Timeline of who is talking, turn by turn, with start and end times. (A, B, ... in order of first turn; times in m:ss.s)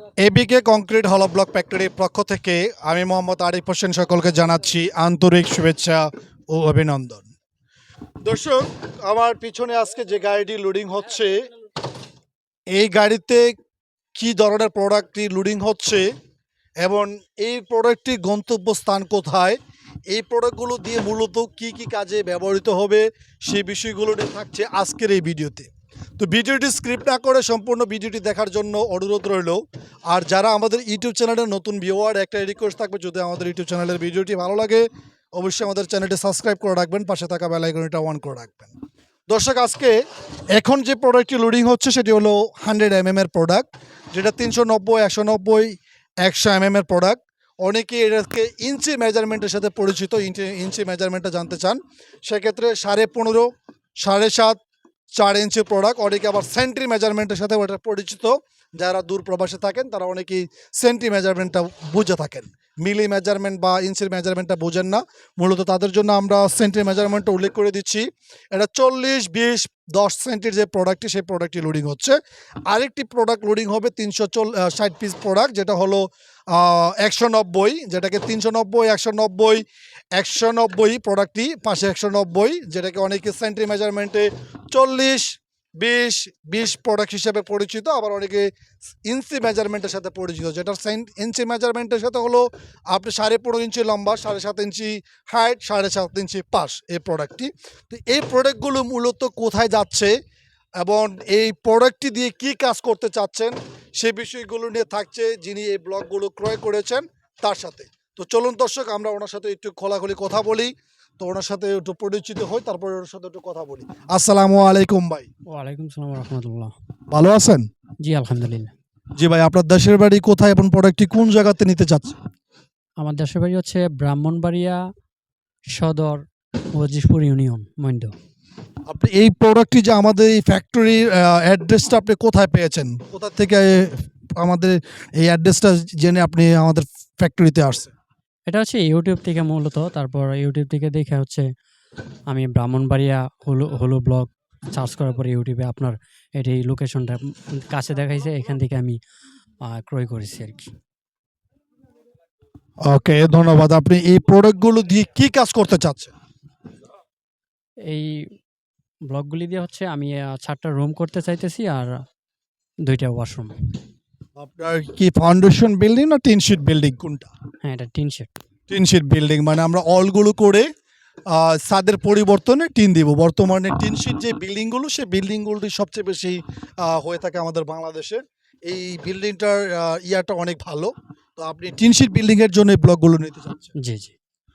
0:00.2-0:07.3 A
0:08.2-0:11.5 A
0:12.7-0:13.6 A
0:14.1-0:16.1 A
0:16.8-0:19.6 A
0:20.1-0:38.7 A
0:39.3-0:40.0 A
0:40.5-0:53.5 A
0:54.0-0:54.6 A
0:55.2-1:12.2 A
1:12.7-1:19.6 A
1:20.1-1:28.5 A
1:29.1-1:40.1 A
1:40.8-1:55.3 A
1:55.5-1:56.7 B
1:57.1-1:57.7 A
1:58.0-1:58.7 B
1:59.2-2:02.2 A
2:03.0-2:04.8 B
2:05.7-2:08.1 B
2:08.9-2:17.9 A
2:18.5-2:21.5 B
2:22.3-2:29.0 B
2:29.6-2:30.7 B
2:32.8-2:36.1 A
2:37.8-2:38.3 B
2:39.1-2:42.0 B
2:42.8-2:43.6 B
2:44.4-2:47.3 A
2:47.6-2:48.3 B
2:48.7-2:50.7 A
2:51.3-3:03.7 A
3:03.8-3:04.1 B